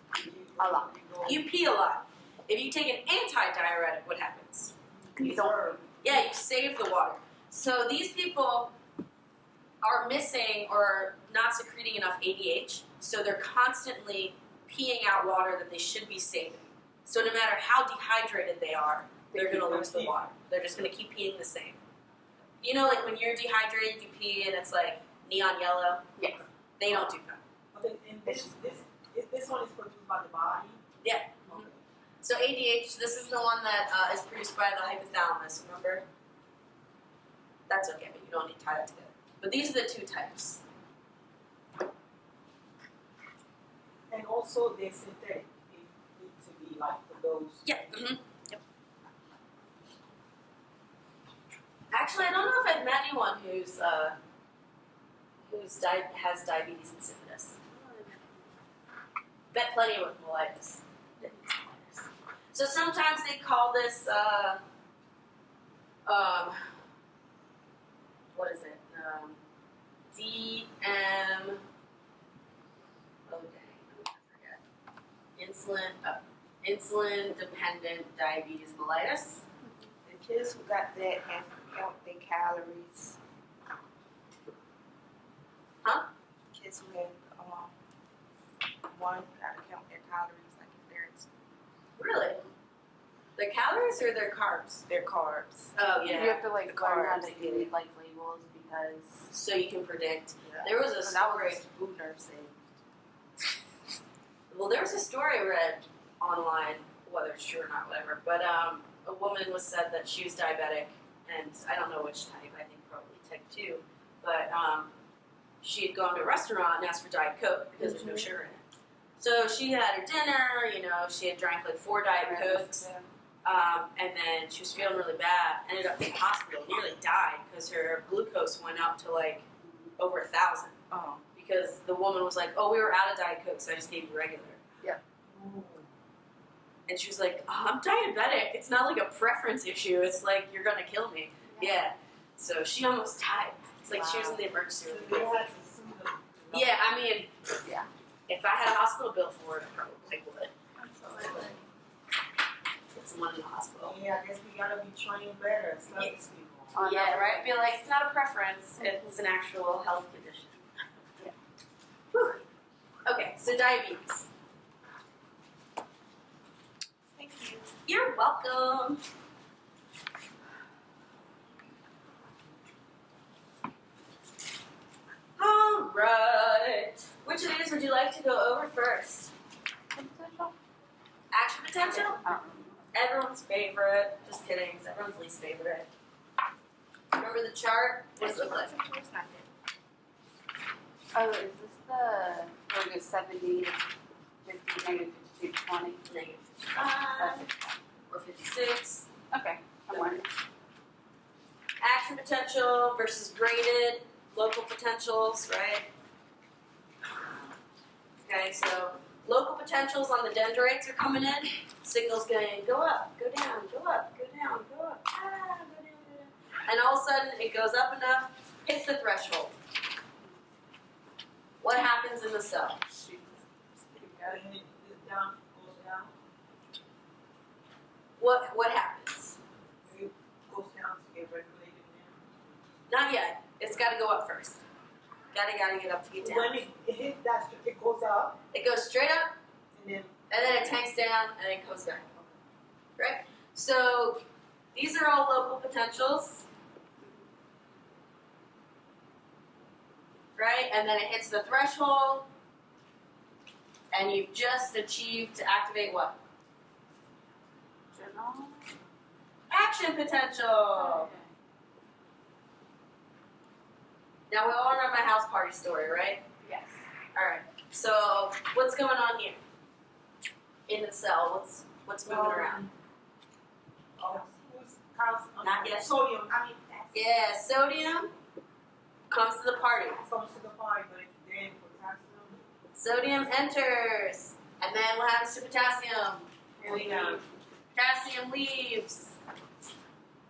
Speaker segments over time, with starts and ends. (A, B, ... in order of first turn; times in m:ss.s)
0:00.1-0:01.4 A
0:00.6-0:00.9 B
0:01.2-0:04.7 C
0:05.1-0:05.8 A
0:05.2-0:05.9 B
0:06.0-0:08.7 C
0:09.8-0:21.8 C
0:19.3-0:19.8 B
0:19.5-0:20.2 A
0:22.6-0:26.1 C
0:26.2-0:26.4 B
0:26.8-0:27.4 C
0:27.7-0:30.8 A
0:31.0-0:31.7 C
0:31.5-0:31.8 A
0:32.2-0:36.0 C
0:37.7-0:40.6 C
0:44.1-0:47.7 A
0:47.7-0:48.6 C
0:51.9-0:54.2 C
0:55.4-0:58.3 C
0:59.5-1:04.6 C
1:06.1-1:06.6 C
1:08.3-1:09.4 C
1:10.1-1:11.6 C
1:13.3-1:14.6 C
1:15.4-1:19.5 C
1:20.1-1:23.0 D
1:21.4-1:22.2 A
1:26.6-1:27.7 D
1:29.0-1:30.4 D
1:30.5-1:30.8 A
1:31.0-1:31.2 D
1:32.0-1:32.4 C
1:33.4-1:34.9 C
1:35.0-1:35.7 D
1:35.7-1:36.5 C
1:36.0-1:39.3 B
1:36.9-1:37.1 D
1:37.2-1:37.7 A
1:39.3-1:41.6 C
1:40.9-1:42.6 B
1:44.5-1:54.9 C
1:55.6-1:58.6 C
1:57.8-1:58.3 B
1:59.2-2:02.9 C
2:02.2-2:03.1 B
2:03.4-2:10.8 C
2:10.9-2:11.2 A
2:11.3-2:14.6 C
2:15.3-2:15.9 A
2:16.9-2:25.4 C
2:21.5-2:21.8 B
2:23.9-2:24.4 B
2:24.9-2:26.8 A
2:26.5-2:27.3 C
2:27.6-2:27.9 B
2:28.3-2:30.5 C
2:30.8-2:31.6 B
2:31.2-2:31.5 A
2:32.9-2:34.0 C
2:33.8-2:36.8 A
2:36.8-2:37.6 B
2:36.8-2:40.6 C
2:38.8-2:39.1 B
2:42.1-2:42.4 C
2:43.1-2:44.3 C
2:47.2-2:47.7 A
2:47.9-2:49.0 C
2:55.4-2:59.3 C
2:59.9-3:00.5 B
3:01.3-3:02.2 C
3:02.0-3:02.8 B
3:02.9-3:05.9 C
3:07.2-3:08.7 C
3:11.1-3:13.8 B
3:14.4-3:16.0 B
3:16.1-3:17.5 C
3:17.2-3:17.7 B
3:18.1-3:19.1 C
3:19.3-3:20.3 B
3:19.9-3:20.2 C
3:21.8-3:25.9 C
3:28.2-3:39.6 C
3:41.6-3:42.9 C
3:42.9-3:44.4 B
3:44.2-3:46.1 A
3:48.2-3:49.4 C
3:49.8-3:52.2 A
3:52.9-3:54.6 C
3:55.3-3:56.6 C
3:56.2-3:58.4 A
3:58.5-3:59.4 C
3:59.7-4:00.2 A
4:00.3-4:02.1 C
4:03.0-4:04.2 C
4:04.7-4:06.4 C
4:10.4-4:12.3 C
4:13.9-4:16.2 C
4:17.9-4:18.7 B
4:19.5-4:21.1 C
4:20.8-4:21.2 B
4:24.3-4:26.2 C
4:26.4-4:26.8 B
4:27.1-4:29.4 C
4:30.7-4:32.7 C
4:32.1-4:32.7 A
4:34.0-4:37.0 A
4:35.4-4:35.9 C
4:36.9-4:38.1 C
4:39.1-4:40.0 C
4:40.0-4:42.4 A
4:42.7-4:49.2 C
4:46.6-4:47.2 A